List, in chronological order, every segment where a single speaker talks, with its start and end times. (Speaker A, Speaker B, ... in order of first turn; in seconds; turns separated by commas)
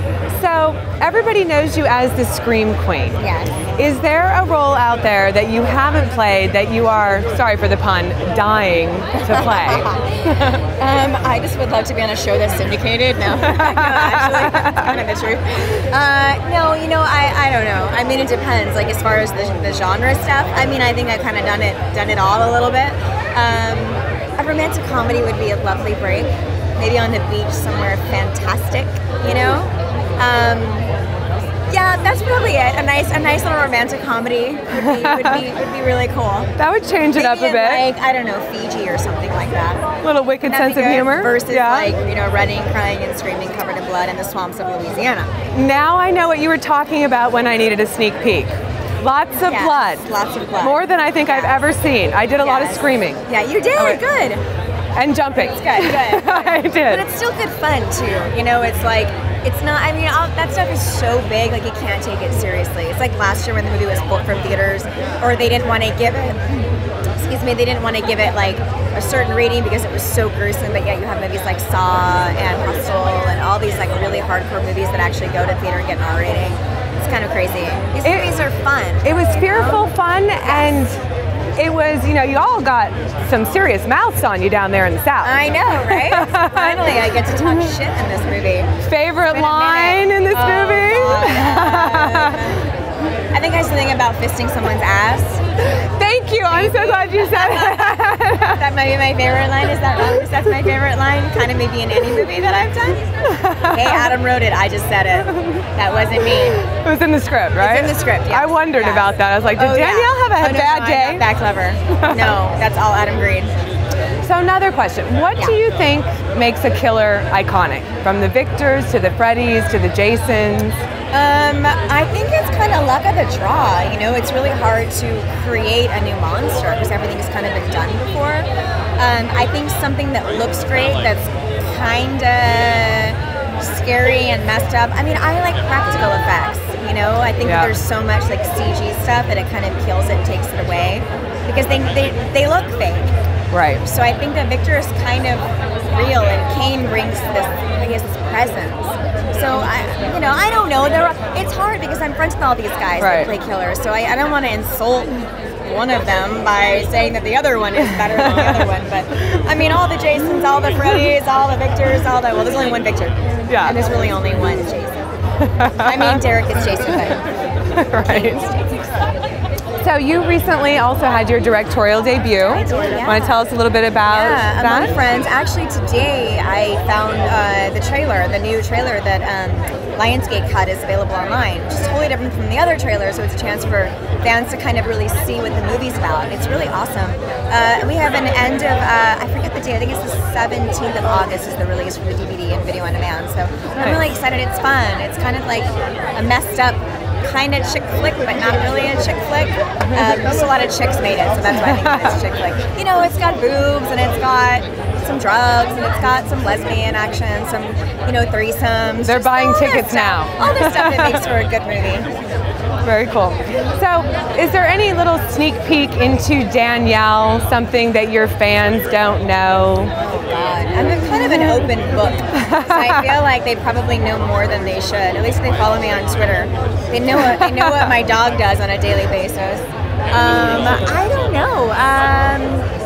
Speaker A: 0.3-3.2, Speaker B: 3.2-3.6, Speaker A: 3.8-10.6, Speaker B: 9.2-10.1, Speaker B: 10.8-30.9, Speaker A: 13.4-14.9, Speaker B: 31.7-36.5, Speaker A: 34.7-35.5, Speaker A: 36.6-37.9, Speaker B: 37.1-39.9, Speaker A: 40.0-42.0, Speaker B: 40.4-45.3, Speaker A: 45.5-50.0, Speaker B: 49.4-51.7, Speaker A: 50.6-53.2, Speaker B: 52.4-54.4, Speaker A: 53.8-54.0, Speaker A: 55.0-57.0, Speaker B: 55.3-66.7, Speaker B: 67.2-79.9, Speaker A: 78.0-78.4, Speaker A: 79.0-81.0, Speaker B: 80.4-80.8, Speaker A: 81.5-87.7, Speaker B: 85.2-88.7, Speaker A: 88.8-92.6, Speaker B: 89.3-92.6, Speaker B: 93.3-95.4, Speaker A: 95.8-98.7, Speaker B: 96.5-103.0, Speaker A: 103.2-104.2, Speaker B: 103.6-106.6, Speaker A: 105.2-105.6, Speaker A: 106.2-111.2, Speaker B: 107.6-113.5, Speaker A: 112.0-112.4, Speaker A: 114.2-120.8, Speaker B: 121.1-143.1, Speaker A: 137.4-137.7, Speaker A: 143.5-143.8, Speaker B: 143.8-165.1, Speaker A: 153.0-153.3, Speaker A: 157.8-158.7, Speaker A: 163.5-163.8, Speaker A: 165.4-166.2, Speaker B: 165.8-167.3, Speaker A: 167.7-168.4, Speaker B: 168.0-168.7, Speaker A: 169.8-175.0, Speaker B: 172.4-173.4, Speaker B: 174.1-212.1, Speaker A: 193.8-194.1, Speaker A: 201.5-202.2, Speaker A: 209.0-211.2, Speaker A: 212.8-219.9, Speaker B: 220.0-232.7, Speaker A: 221.1-221.7, Speaker A: 222.3-223.2, Speaker A: 227.2-227.9